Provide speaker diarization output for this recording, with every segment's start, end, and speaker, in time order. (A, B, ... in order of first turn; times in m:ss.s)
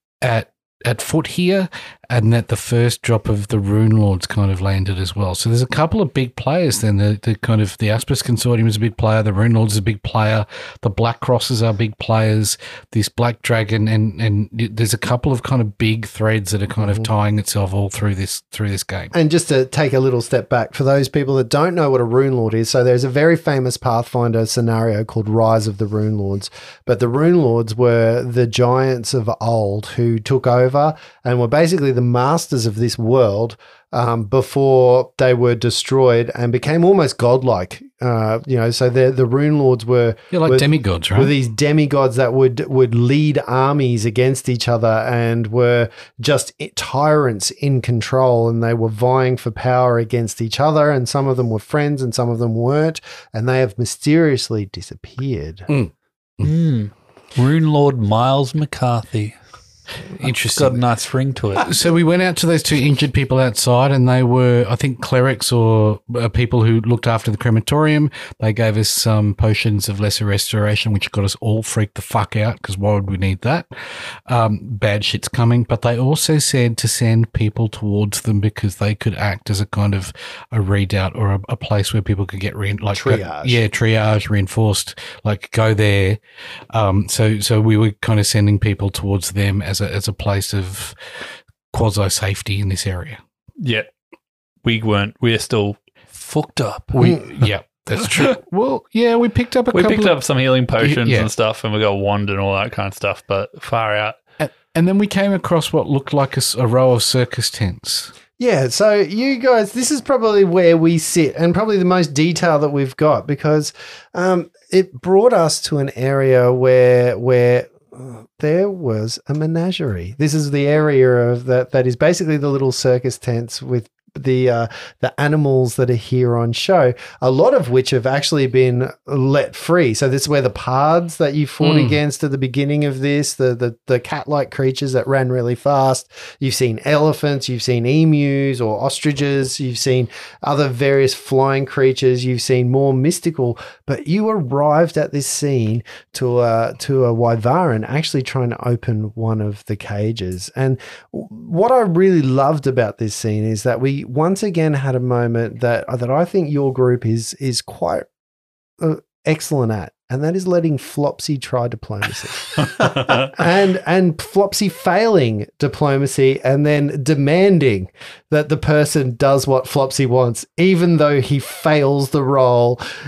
0:00.2-0:19.1 A
0:16.8-0:17.1 B
0:19.1-0:55.7 B
0:40.3-0:41.3 A
0:55.7-0:56.5 A
0:56.4-0:59.4 C
1:00.2-1:00.8 A
1:00.2-1:01.7 C
1:01.6-1:13.7 A
1:14.3-1:26.2 A
1:22.9-1:23.6 B
1:26.7-1:31.0 A
1:31.7-1:33.2 A
1:33.6-1:33.9 C
1:34.6-1:37.1 C
1:36.9-1:40.2 A
1:39.7-1:44.2 C
1:40.8-1:41.3 A
1:44.4-1:48.1 A
1:48.4-2:38.1 B
2:11.6-2:12.0 A
2:38.8-2:52.8 B
2:42.8-2:43.3 C